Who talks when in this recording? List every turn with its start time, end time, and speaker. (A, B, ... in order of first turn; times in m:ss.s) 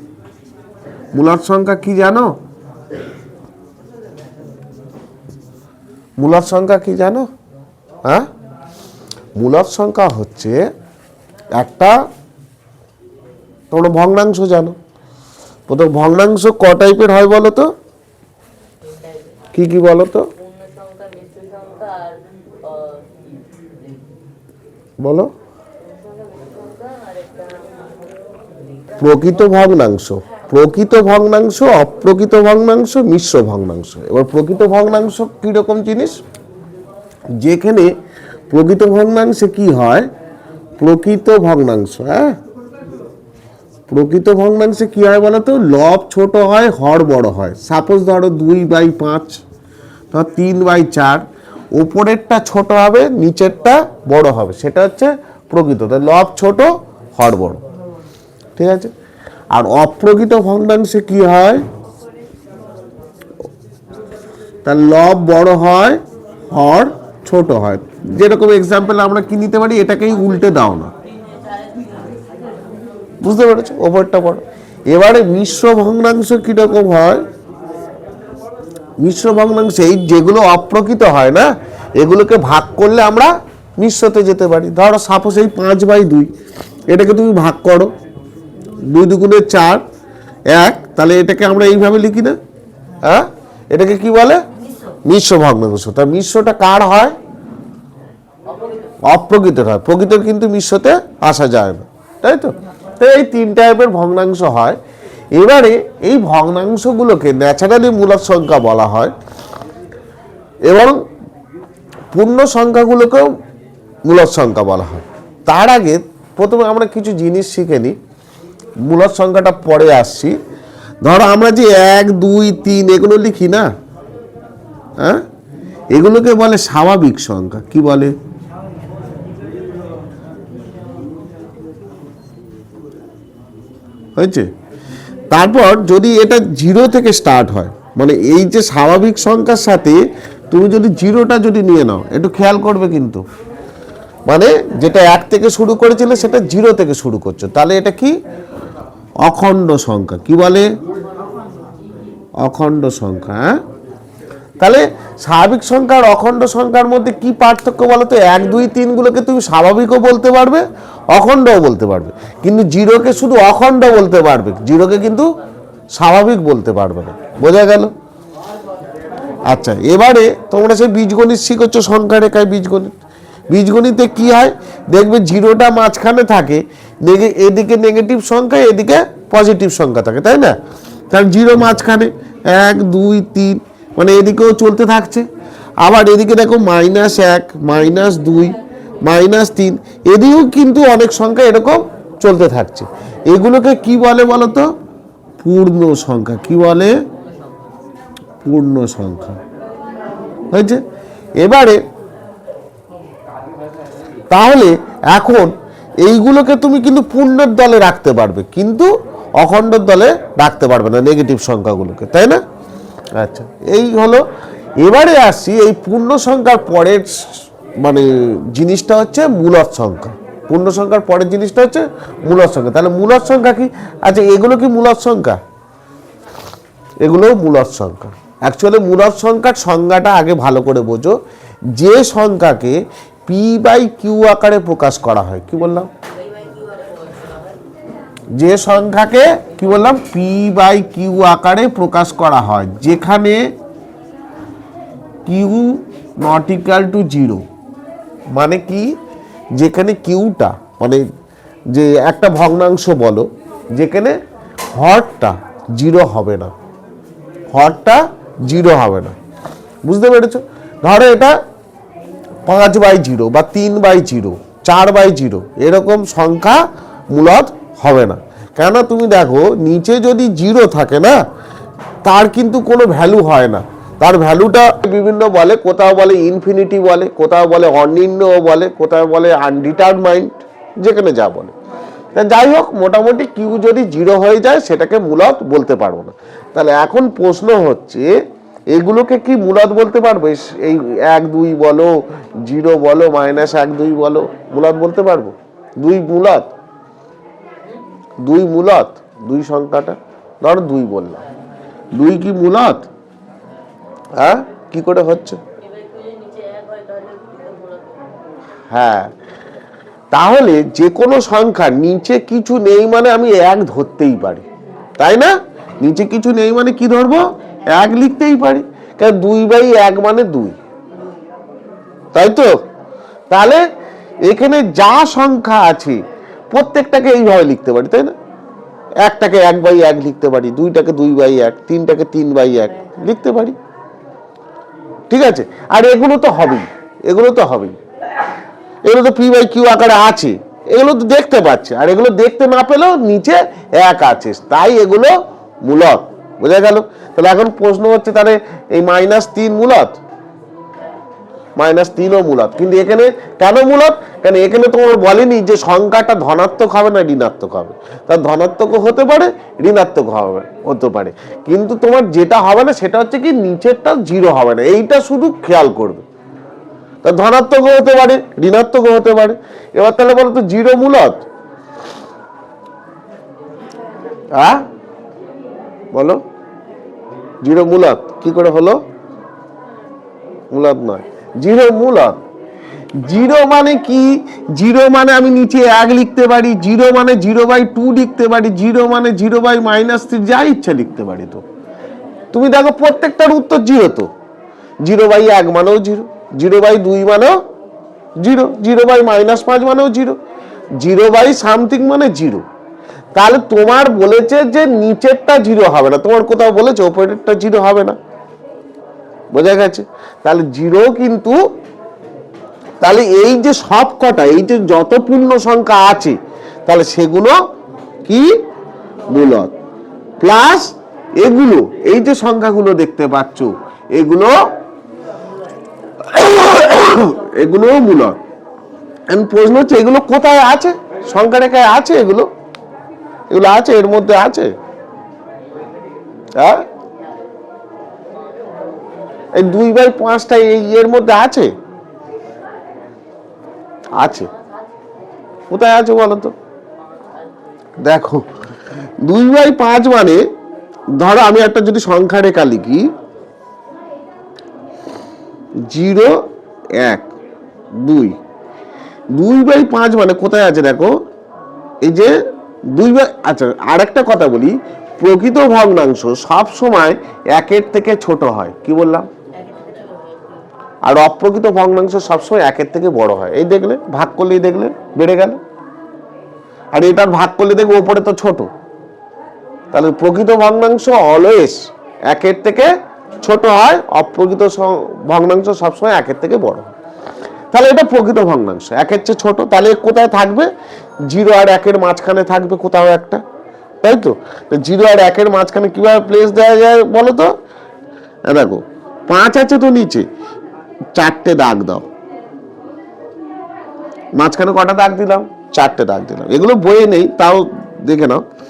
0:01.2-0:02.3 A
0:06.2-0:07.3 A
0:09.4-0:10.6 A
0:11.6-0:12.0 A
0:13.7-0:14.8 A
0:15.7-0:17.7 A
0:18.8-0:19.4 B
0:19.5-0:20.3 A
0:20.4-0:24.0 B
0:25.0-0:25.3 A
0:25.9-0:28.0 B
0:29.0-0:36.2 A
0:30.3-0:30.6 B
0:37.4-0:37.9 A
0:38.5-0:40.1 A
0:40.8-0:42.4 A
0:43.9-0:49.4 A
0:50.1-0:57.6 A
0:58.6-0:58.9 A
0:59.5-1:01.6 A
1:04.6-1:10.9 A
1:11.0-1:12.5 B
1:13.2-1:17.2 A
1:19.0-1:26.3 A
1:26.9-1:27.9 A
1:28.9-1:29.8 A
1:30.5-1:32.4 A
1:33.0-1:34.4 A
1:35.0-1:37.2 A
1:38.5-1:39.0 B
1:39.0-1:44.8 A
1:45.4-1:49.1 A
1:50.6-1:51.0 A
1:52.1-1:53.3 A
1:54.1-1:58.0 A
1:58.8-2:00.4 A
2:01.0-2:03.7 A
2:05.9-2:08.1 A
2:14.2-2:14.5 A
2:15.3-2:23.2 A
2:24.3-2:28.2 A
2:29.2-2:30.7 A
2:32.4-2:33.6 A
2:34.6-2:45.3 A
2:46.0-2:47.9 A
2:49.5-2:53.0 A
2:53.5-3:00.6 A
3:01.1-3:05.3 A
3:05.8-3:14.7 A
3:15.4-3:17.0 A
3:18.4-3:19.4 A
3:20.5-3:20.8 A
3:21.4-3:21.8 A
3:24.3-3:32.4 A
3:33.2-3:34.2 A
3:34.8-3:37.2 A
3:37.8-3:45.4 A
3:47.0-3:51.2 A
3:51.7-3:55.9 A
3:56.0-3:57.6 B
3:58.4-4:03.5 A
4:05.3-4:07.4 A
4:08.3-4:08.9 A
4:09.6-4:11.0 A
4:11.7-4:14.2 A
4:14.8-4:16.5 A
4:17.5-4:19.2 A
4:19.8-4:21.4 A
4:22.5-4:31.2 A
4:32.0-4:41.5 A
4:42.1-4:48.1 A
4:48.7-4:56.5 A
4:58.2-5:01.2 A
5:02.0-5:02.9 A
5:04.2-5:05.4 A
5:05.6-5:08.2 B
5:08.7-5:09.1 A
5:10.1-5:14.4 A
5:15.0-5:20.6 A
5:22.1-5:22.6 A
5:23.3-5:23.6 A
5:24.3-5:28.2 A
5:29.0-5:33.6 A
5:35.1-5:37.8 A
5:38.8-5:50.0 A
5:51.6-6:06.0 A
6:07.0-6:11.2 A
6:14.3-6:14.7 A
6:15.9-6:16.2 A
6:17.4-6:18.8 A
6:20.5-6:22.2 A
6:23.0-6:31.4 A
6:32.3-6:34.1 A
6:34.8-6:37.4 A
6:38.2-6:40.2 A
6:40.8-6:42.4 A
6:43.2-6:48.0 A
6:49.3-6:51.4 A
6:52.8-6:57.4 A
6:58.1-6:58.4 A
6:59.1-6:59.6 A
7:00.2-7:04.5 A
7:06.0-7:08.2 A
7:09.1-7:12.3 A
7:13.3-7:14.5 A
7:16.4-7:16.7 A
7:18.1-7:19.3 B
7:19.3-7:21.5 A
7:24.0-7:24.3 A
7:24.0-7:24.9 B
7:25.5-7:26.3 A
7:26.8-7:27.7 B
7:27.8-7:28.3 A
7:29.0-7:30.2 A
7:31.0-7:32.9 A
7:35.6-7:37.1 A
7:37.8-7:38.2 A
7:39.1-7:41.0 A
7:41.8-7:42.2 A
7:42.7-7:49.1 A
7:49.3-7:50.5 B
7:50.8-7:55.4 A
7:56.7-7:58.5 A
7:59.7-8:02.7 A
8:03.2-8:06.7 A
8:07.5-8:10.5 A
8:11.1-8:13.2 A
8:13.8-8:17.3 A
8:18.3-8:20.1 A
8:21.0-8:21.9 A
8:24.2-8:28.2 A